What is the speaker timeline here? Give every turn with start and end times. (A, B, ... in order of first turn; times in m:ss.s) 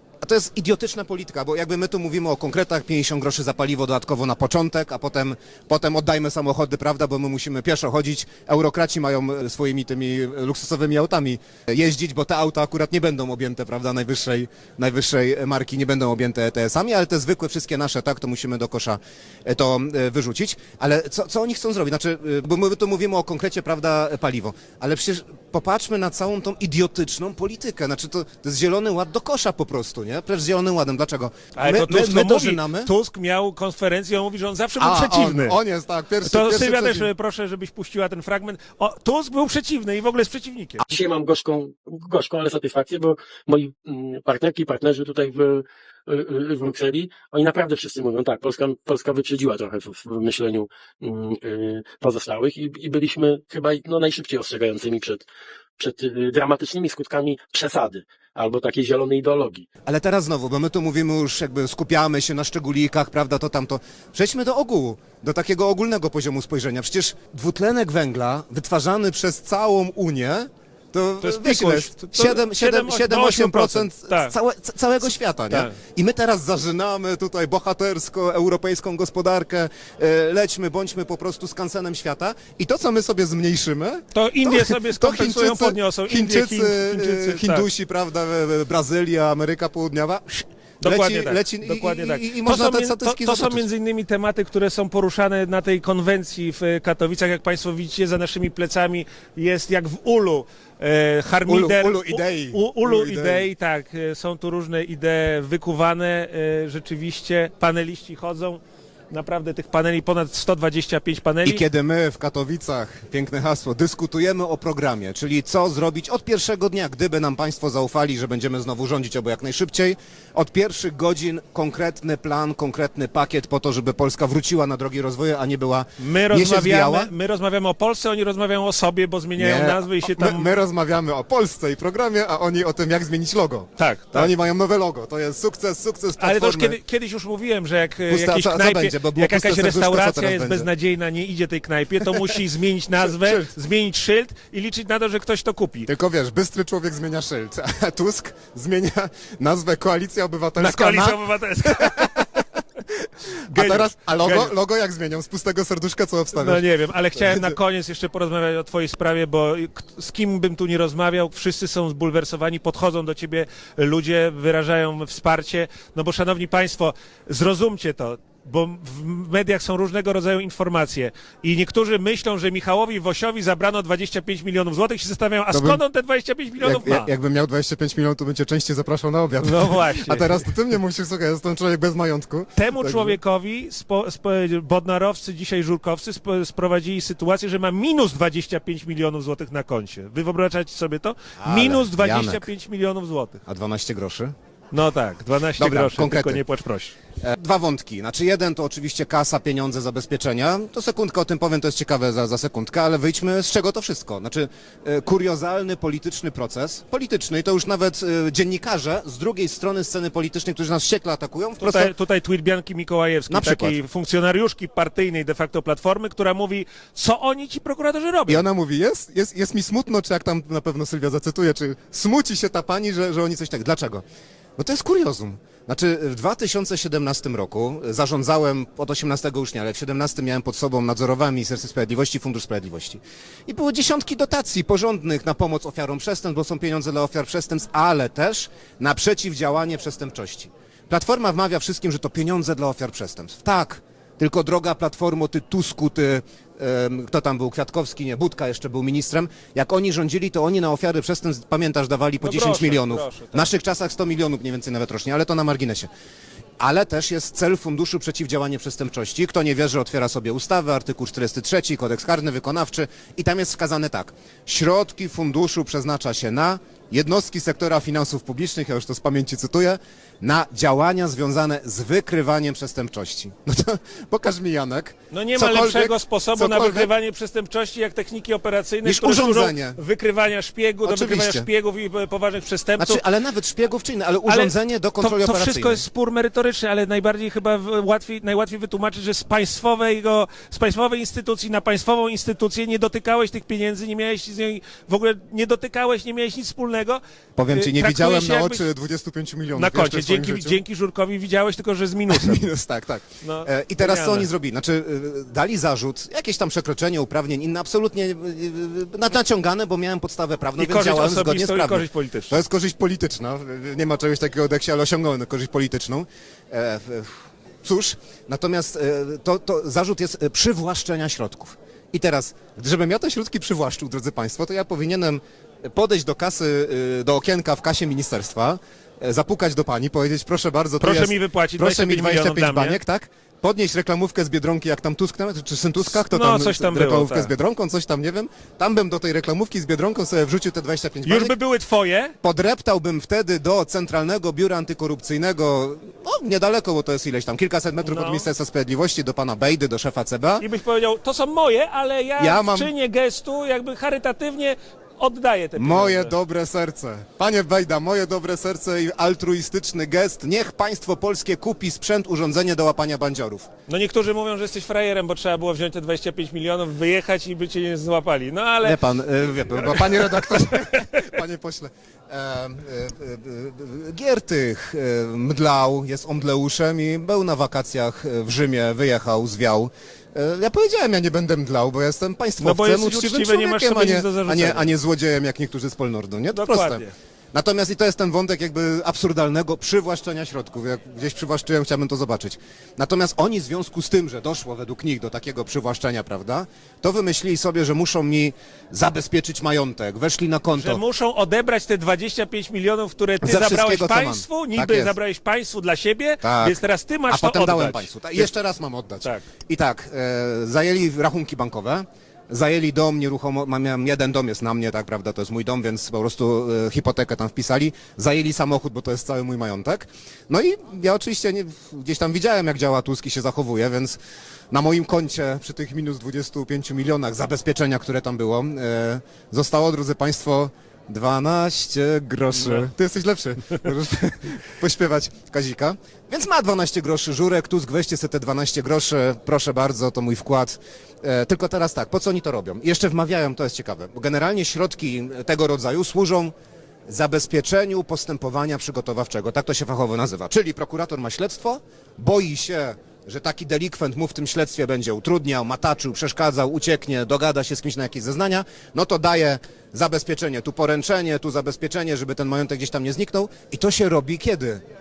0:00.2-0:32.9 A
0:31.6-0:35.6 B
0:34.8-0:37.1 A
0:36.2-0:40.8 B
0:40.8-0:55.2 C
0:55.8-0:59.6 C
0:59.8-1:33.6 A
1:11.2-1:14.3 B
1:15.5-1:15.7 B
1:24.1-1:27.7 B
1:30.8-1:48.6 B
1:41.4-1:43.5 A
1:49.1-1:51.6 B
1:51.4-2:07.1 A
2:06.0-2:10.5 B
2:09.4-2:16.8 A
2:13.8-2:14.3 B
2:16.2-2:25.9 B
2:18.1-2:20.7 A
2:22.0-2:22.4 A
2:23.0-2:23.5 A
2:25.9-2:37.6 A
2:30.6-2:32.3 B
2:33.5-2:34.5 B
2:36.3-2:57.1 B
2:55.5-2:55.8 A
2:56.6-3:03.2 A
2:59.4-3:00.4 B
3:02.6-3:13.4 B
3:11.4-3:12.5 A
3:13.4-3:14.3 A
3:14.7-3:17.0 B
3:15.6-3:16.4 A
3:17.2-3:31.9 A
3:31.6-3:38.4 B
3:33.3-3:33.8 A
3:38.3-3:44.0 A
3:44.6-4:15.9 A
4:12.2-4:13.5 B
4:16.6-4:36.9 A
4:35.1-4:43.0 B
4:38.8-4:39.8 A
4:40.8-4:41.5 A
4:42.8-4:45.8 A
4:44.2-4:58.6 B
4:57.4-5:00.6 A
4:59.5-5:02.4 B
5:02.1-5:41.4 A
5:03.2-5:04.3 B
5:10.6-5:12.4 B
5:30.8-5:32.8 B
5:35.8-5:37.3 B
5:41.0-5:42.1 B
5:42.2-5:50.4 A
5:47.8-5:48.3 B
5:50.4-5:56.1 B
5:52.2-5:52.7 A
5:55.6-6:03.5 A
6:03.7-6:11.0 B
6:08.6-6:26.8 A
6:22.4-6:24.7 B
6:26.3-6:26.9 B
6:27.3-6:40.8 A
6:40.6-6:48.3 B
6:43.2-6:45.0 A
6:46.2-7:04.0 A
7:04.5-7:26.3 A
7:12.3-7:12.7 B
7:26.9-7:44.6 A